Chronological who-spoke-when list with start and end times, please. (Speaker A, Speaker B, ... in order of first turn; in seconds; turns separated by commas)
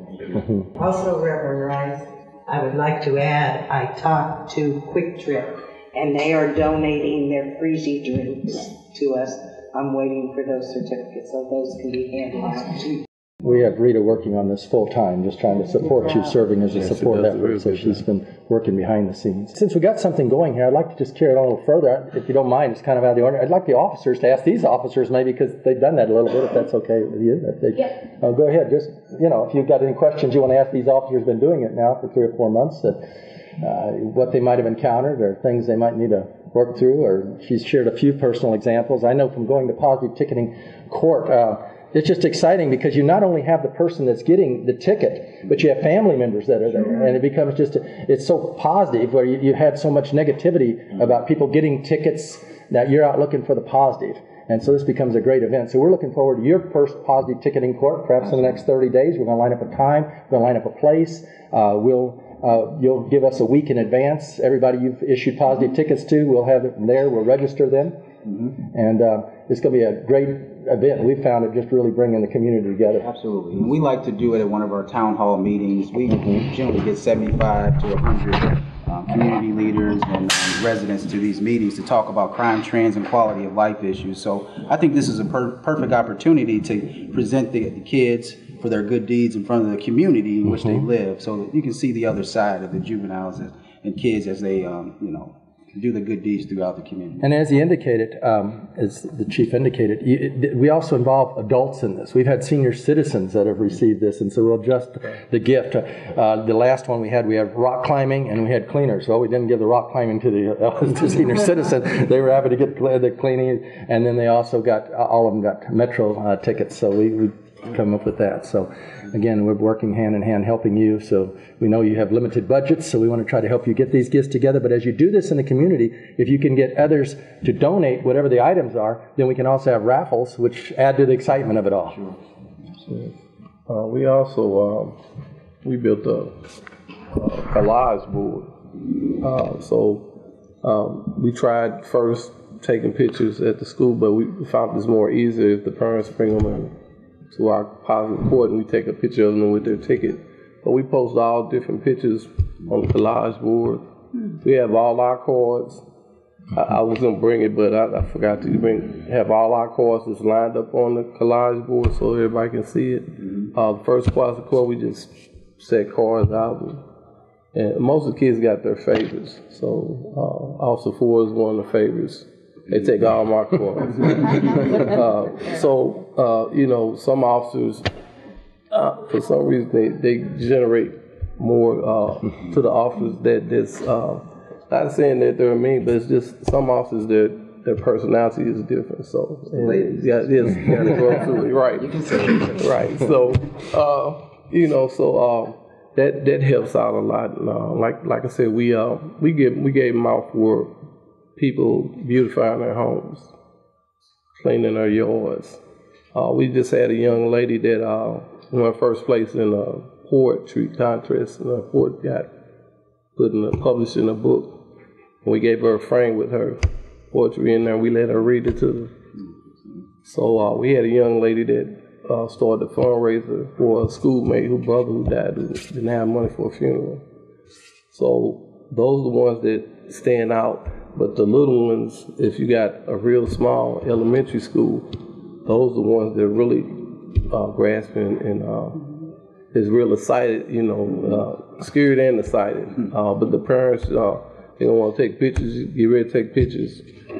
Speaker A: 0.3-0.7, Speaker B: 0.8-13.0, Speaker A: 13.4-33.0, Speaker C: 16.7-18.0, Speaker A: 33.6-68.0, Speaker A: 68.7-73.1, Speaker D: 73.0-97.2, Speaker A: 76.1-76.5, Speaker A: 97.2-132.1, Speaker C: 132.9-133.1, Speaker C: 133.7-135.0, Speaker C: 135.6-136.4, Speaker C: 137.1-138.5, Speaker C: 139.0-140.1, Speaker C: 140.6-146.7, Speaker C: 147.3-153.8, Speaker C: 154.4-155.8, Speaker C: 156.5-166.8, Speaker C: 167.5-177.9, Speaker C: 178.7-200.8, Speaker D: 189.6-189.9, Speaker D: 190.6-192.8, Speaker C: 201.3-203.3, Speaker C: 204.4-205.6, Speaker C: 206.1-212.3, Speaker C: 213.2-214.6, Speaker C: 215.2-218.9, Speaker C: 220.0-227.0, Speaker C: 227.9-238.9, Speaker C: 239.5-246.9